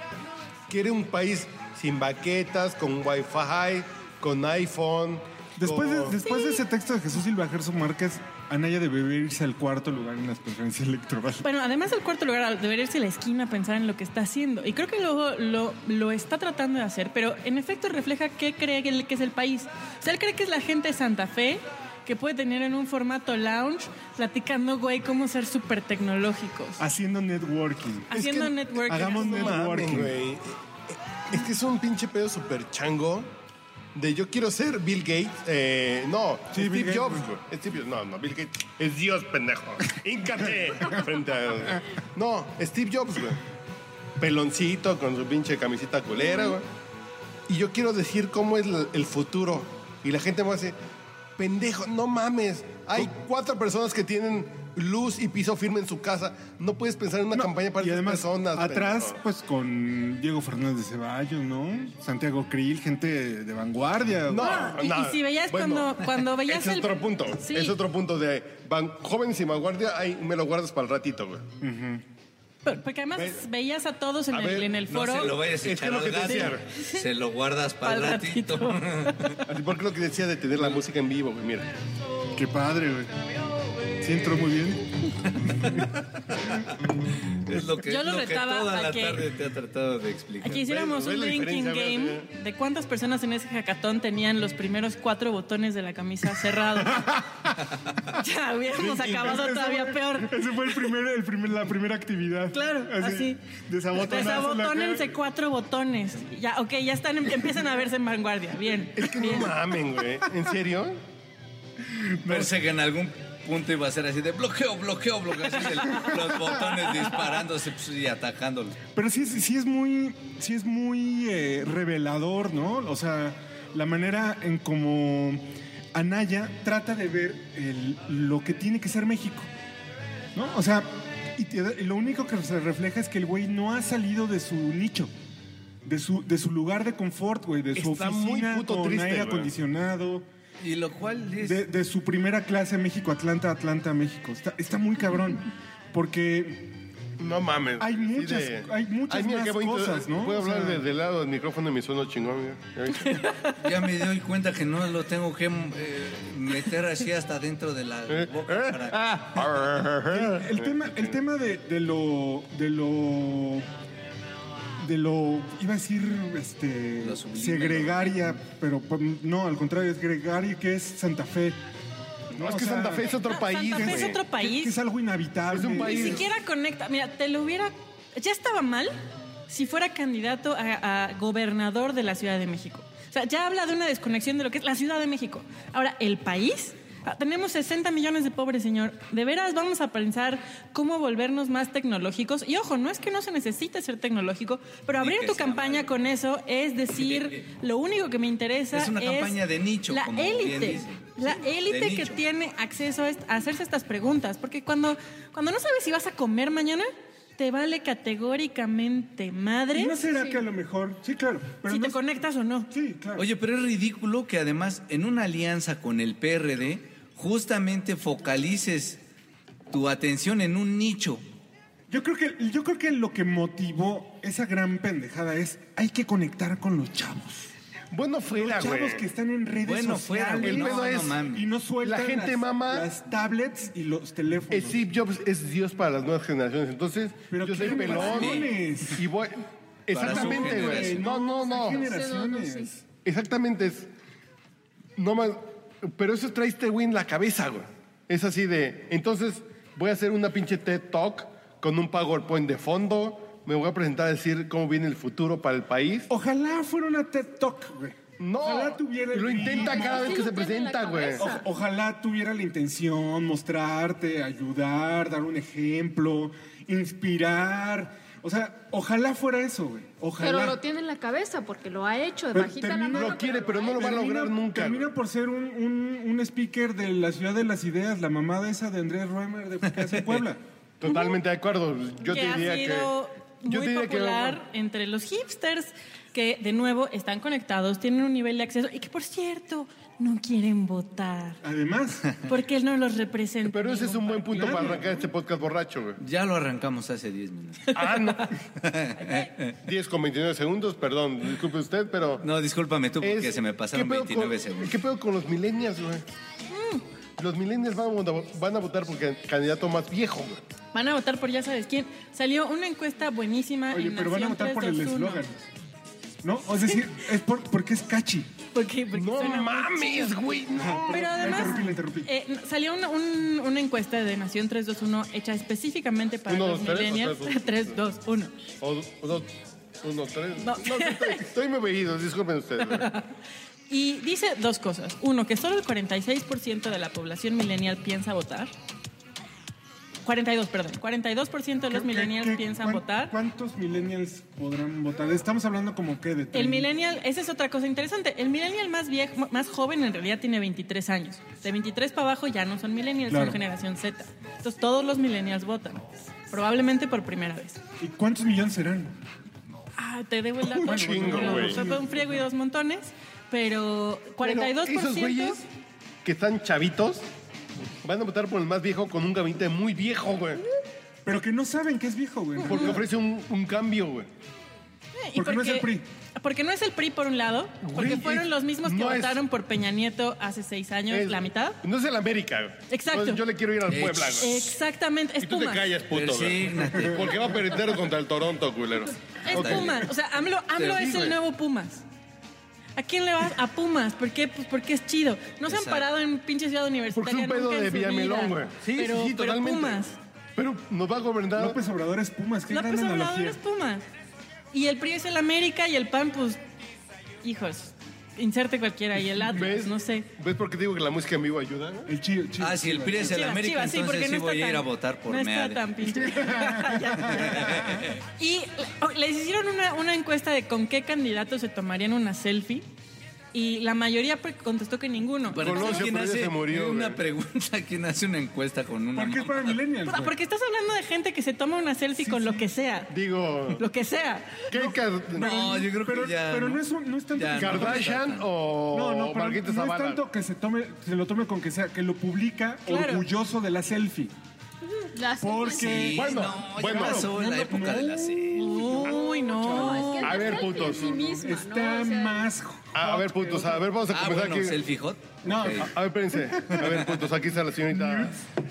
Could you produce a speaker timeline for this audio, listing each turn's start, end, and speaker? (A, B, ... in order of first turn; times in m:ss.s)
0:00.7-0:06.3 A
0:05.6-0:11.5 B
0:11.4-0:26.8 C
0:26.8-0:30.2 B
0:28.1-0:29.6 C
0:28.2-0:30.6 A
0:31.3-0:33.3 A
0:33.9-0:43.4 A
0:36.5-0:37.3 B
0:44.2-0:46.7 A
0:47.5-0:50.8 A
0:51.4-0:59.2 A
0:57.3-1:04.8 B
1:04.3-1:11.5 A
1:04.4-1:07.0 C
1:07.4-1:07.8 D
1:11.6-1:12.0 B
1:12.6-1:15.4 C
1:13.2-1:13.4 A
1:14.3-1:14.7 A
1:14.9-1:19.4 E
1:15.5-1:16.6 A
1:16.3-1:17.1 C
1:17.8-1:19.5 C
1:19.5-1:21.7 A
1:22.3-1:23.2 B
1:24.0-1:24.9 B
1:25.4-1:26.7 E
1:27.3-1:30.6 E
1:27.8-1:29.2 C
1:30.4-1:37.2 C
1:30.5-1:32.3 A
1:36.8-1:37.6 B
1:38.1-1:40.4 C
1:38.8-1:45.2 B
1:38.8-1:39.5 A
1:42.5-1:43.4 C
1:44.0-1:49.6 C
1:49.0-1:51.0 A
1:51.8-1:52.6 B
1:52.2-1:58.8 E
1:55.7-1:56.7 B
1:58.9-2:09.5 B
2:10.4-2:15.1 B
2:15.8-2:20.3 B
2:17.8-2:19.5 A
2:20.6-2:21.6 E
2:21.4-2:26.8 B
2:27.2-2:33.3 A
2:27.8-2:30.8 B
2:33.2-2:33.6 C
2:33.6-2:39.4 E
2:38.1-2:41.1 A
2:40.1-2:43.7 B
2:44.8-2:51.6 B
2:47.0-2:48.3 E
2:52.3-2:54.2 A
2:52.3-2:53.2 B
2:53.2-2:54.8 C
2:53.7-2:56.2 B
2:55.5-2:56.3 A
2:55.7-2:59.0 C
2:59.5-3:30.0 C
3:15.0-3:15.9 E
3:17.0-3:17.5 E
3:18.7-3:22.2 E
3:29.7-3:32.0 B
3:31.7-3:32.7 C
3:32.7-3:33.3 B
3:33.2-3:39.0 E
3:39.7-3:41.2 E
3:41.9-3:47.5 B
3:47.9-3:49.0 A
3:48.4-3:54.8 B
3:49.6-3:51.4 E
3:50.4-3:51.2 A
3:51.8-3:52.9 A
3:54.5-4:01.9 A
3:57.3-3:59.1 B
3:57.9-3:58.5 E
3:59.9-4:01.0 E
4:00.0-4:02.8 B
4:01.6-4:02.7 D
4:03.0-4:03.9 A
4:05.0-4:16.1 A
4:16.1-4:20.3 B
4:18.2-4:21.3 A
4:19.6-4:21.4 D
4:21.2-4:30.6 B
4:30.2-4:34.0 D
4:32.3-4:40.4 B
4:32.9-4:34.9 A
4:40.8-4:42.9 A
4:40.8-4:41.2 C
4:42.0-4:51.4 C
4:43.4-4:44.4 A
4:51.4-4:52.1 B
4:52.2-4:54.8 C
4:53.4-4:56.0 A
4:54.3-4:54.9 B
4:56.0-4:57.8 E
4:57.7-4:58.4 A
4:58.6-4:59.6 E
4:59.6-5:02.3 A
5:02.2-5:04.8 E
5:03.0-5:06.0 A
5:06.5-5:06.8 C
5:07.2-5:10.4 A
5:10.7-5:15.2 C
5:13.7-5:15.5 B
5:16.2-5:18.3 B
5:18.5-5:20.2 C
5:18.9-5:21.6 A
5:20.6-5:22.1 B
5:20.8-5:28.3 C
5:26.3-5:27.8 A
5:28.6-5:32.9 A
5:30.4-5:31.3 C
5:32.6-5:33.1 C
5:33.7-5:38.5 C
5:40.0-5:43.1 C
5:41.7-5:46.7 B
5:46.3-5:57.6 C
5:53.1-5:53.4 B
5:57.8-5:58.9 B
5:59.8-6:05.4 C
6:00.4-6:01.6 A
6:00.6-6:02.1 B
6:04.2-6:05.5 A
6:06.0-6:07.1 A
6:07.8-6:10.4 A
6:11.0-6:12.8 B
6:12.4-6:12.8 C
6:12.4-6:14.1 A
6:15.0-6:21.6 C
6:15.2-6:15.8 B
6:17.6-6:19.2 A
6:20.9-6:24.6 A
6:22.7-6:23.2 C
6:23.7-6:24.3 E
6:24.2-6:25.7 C
6:25.2-6:29.9 A
6:25.9-6:27.6 E
6:29.2-6:29.9 E
6:29.2-6:31.8 C
6:30.6-6:31.2 E
6:32.8-6:40.0 C
6:35.5-6:35.9 E
6:36.9-6:39.8 A
6:40.4-6:41.6 A
6:41.4-6:43.4 B
6:42.5-6:43.9 C
6:44.5-6:46.4 C
6:47.2-6:50.1 C
6:49.2-6:51.9 A
6:51.9-6:53.4 B
6:52.4-6:55.7 E
6:53.0-7:02.7 C
6:56.0-6:57.9 B
6:57.1-6:58.0 E
7:03.3-7:05.9 C
7:05.3-7:09.6 E
7:05.4-7:07.0 A
7:09.0-7:10.2 B
7:09.9-7:12.9 C
7:12.0-7:12.5 B
7:12.9-7:13.6 A
7:13.5-7:14.5 C
7:14.5-7:15.3 A
7:14.5-7:17.9 B
7:15.2-7:18.3 E
7:17.4-7:20.0 A
7:18.7-7:24.2 B
7:22.7-7:23.0 C
7:24.9-7:25.9 D
7:25.2-7:33.7 B
7:25.5-7:28.6 E
7:25.9-7:27.1 A
7:28.4-7:30.4 C
7:29.4-7:32.3 D
7:30.0-7:31.0 A
7:32.7-7:34.6 A
7:33.9-7:35.7 E
7:35.2-7:36.6 B
7:35.6-7:38.2 A
7:36.4-7:37.0 E
7:37.7-7:38.2 B